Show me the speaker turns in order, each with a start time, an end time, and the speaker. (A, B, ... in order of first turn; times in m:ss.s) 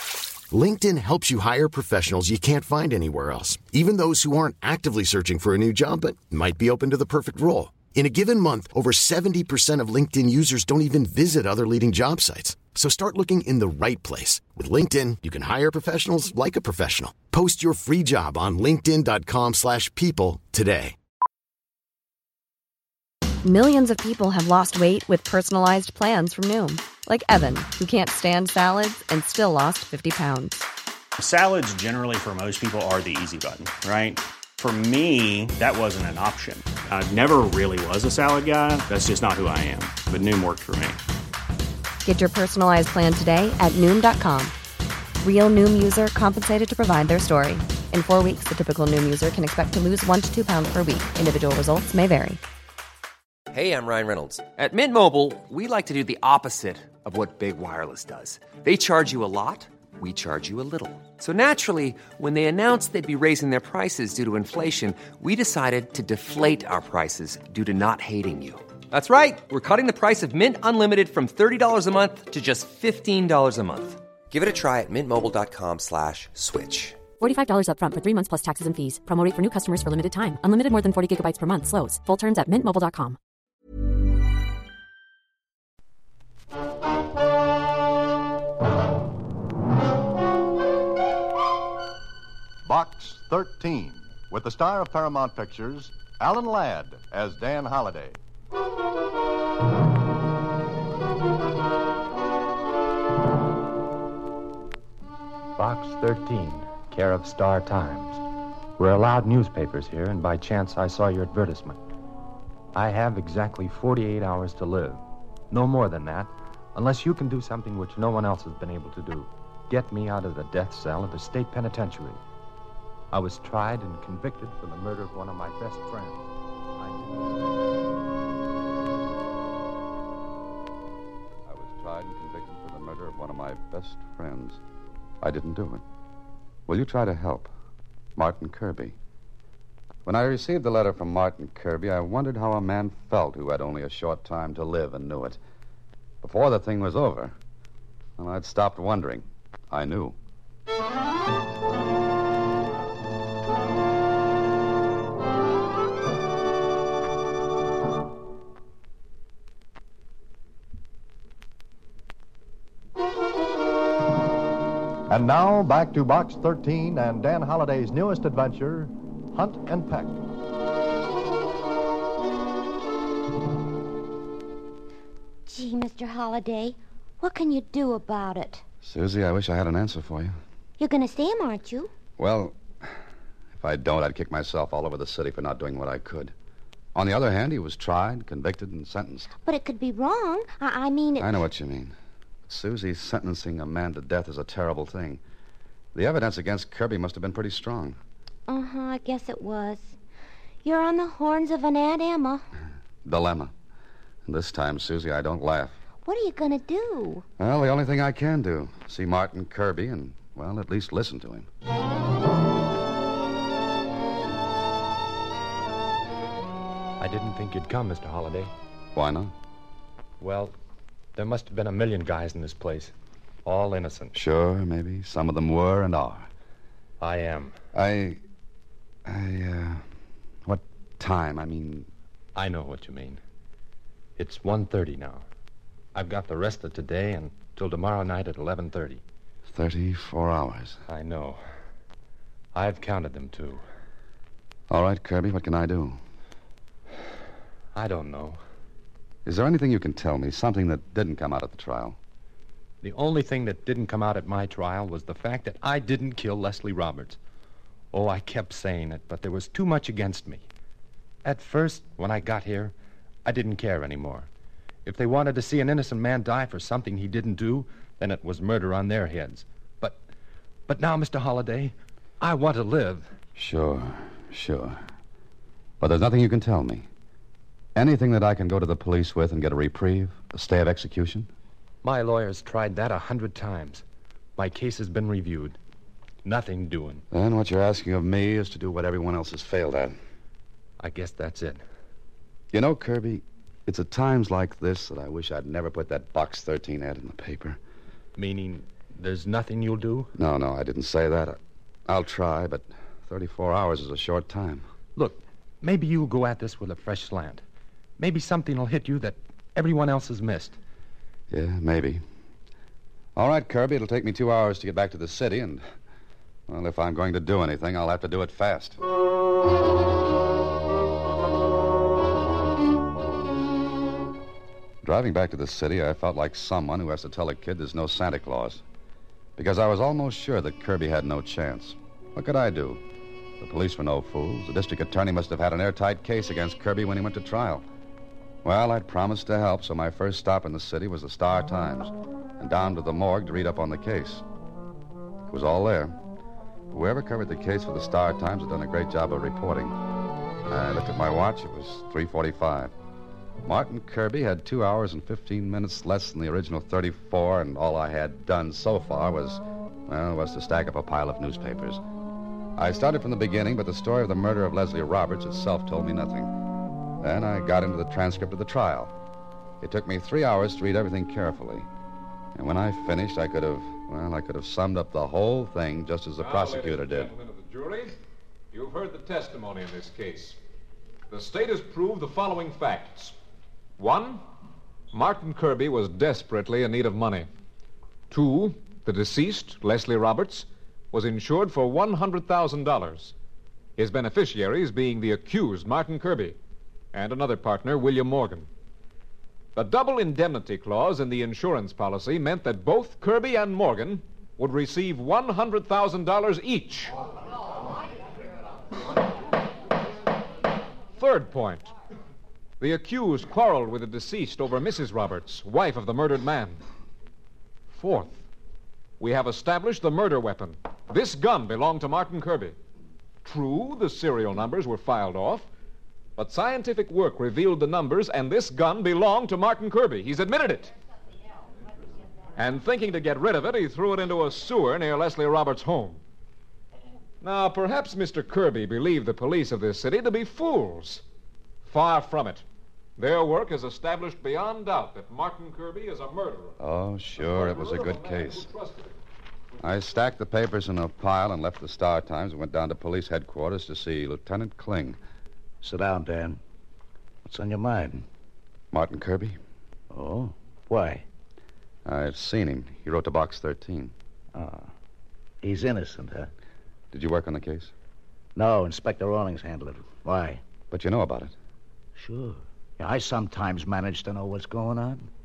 0:00.5-0:21.0 A
0:23.4-0:30.6 B
0:31.2-0:41.0 C
0:42.0-0:44.5 B
0:45.2-0:52.4 B
0:53.5-1:17.1 D
1:17.2-1:23.2 E
1:32.7-1:38.2 F
1:45.6-1:48.2 G
1:48.8-1:51.8 G
1:52.7-2:02.2 G
2:03.1-2:07.2 G
2:11.5-2:14.6 H
2:15.2-2:15.8 H
2:16.7-2:17.5 H
2:18.2-2:19.0 H
2:20.0-2:25.4 H
2:26.2-2:27.4 H
2:28.2-2:30.2 H
2:45.1-2:50.2 F
2:55.5-2:58.6 I
2:58.8-3:00.3 H
3:00.8-3:01.9 I
3:02.2-3:03.0 H
3:03.6-3:06.3 H
3:07.0-3:09.3 H
3:09.4-3:11.4 I
3:11.2-3:11.9 H
3:12.5-3:15.2 H
3:15.9-3:18.0 H
3:18.5-3:20.0 I
3:20.6-3:22.4 I
3:23.0-3:23.5 H
3:24.3-3:25.8 H
3:26.0-3:27.2 I
3:27.4-3:31.5 H
3:37.0-3:38.5 G
3:39.0-3:39.3 H
3:40.2-3:40.5 G
3:41.2-3:42.9 G
3:43.4-3:44.2 G
3:44.1-3:46.3 H
3:47.0-3:47.6 G
3:47.7-3:48.2 H
3:49.1-3:49.8 H
3:50.4-3:51.9 H
3:52.4-3:53.2 G
3:54.2-3:55.2 G
3:56.0-3:59.0 G
3:59.5-4:00.8 H
4:00.9-4:01.4 G
4:02.5-4:03.6 G
4:04.7-4:06.0 H
4:07.7-4:08.4 G
4:09.2-4:12.0 H
4:12.8-4:17.2 G
4:17.9-4:20.5 G
4:21.2-4:22.7 G
4:23.2-4:24.3 G
4:24.8-4:30.0 G
4:30.7-4:33.1 G
4:33.4-4:34.8 H
4:35.8-4:36.9 H
4:37.8-4:41.3 H
4:41.8-4:43.8 G
4:44.4-4:45.6 G
4:46.2-4:47.0 G
4:47.1-4:50.0 H
4:50.8-4:51.6 G
4:52.5-4:57.6 H
4:58.2-5:00.1 G
5:00.2-5:04.7 H
5:05.0-5:07.4 G
5:08.0-5:10.6 G
5:11.3-5:12.0 H
5:13.2-5:15.6 H
5:16.5-5:18.8 H
5:24.8-5:28.6 H
5:29.4-5:32.8 H
5:33.4-5:37.7 H
5:38.4-5:44.3 H
5:45.3-5:46.0 H
5:46.7-5:49.8 H
5:50.5-5:52.7 H
5:53.4-6:01.8 H
6:02.6-6:06.3 H
6:07.0-6:08.9 H
6:09.6-6:11.7 H
6:12.4-6:17.1 H
6:16.2-6:18.0 J
6:18.5-6:20.4 J
6:21.1-6:23.2 J
6:23.8-6:24.2 J
6:24.9-6:27.3 J
6:28.1-6:33.1 J
6:33.8-6:36.4 J
6:36.9-6:38.5 J
6:39.6-6:46.9 J
6:51.0-6:51.7 J
6:52.6-6:56.6 J
6:57.7-6:58.2 J
6:59.0-7:02.6 J
7:03.2-7:05.5 J
7:06.2-7:10.7 J
7:12.4-7:16.0 J
7:17.2-7:21.0 J
7:21.7-7:22.4 J
7:23.0-7:26.6 J
7:26.6-7:28.5 H
7:27.2-7:29.0 J
7:29.6-7:35.0 H
7:35.6-7:36.4 K
7:37.3-7:38.0 K
7:38.7-7:39.4 H
7:39.9-7:41.0 K
7:41.8-7:43.9 H
7:44.3-7:44.7 K
7:45.4-7:46.3 K
7:46.9-7:47.7 H
7:48.4-7:50.4 K
7:50.7-7:51.3 H
7:52.0-7:55.1 K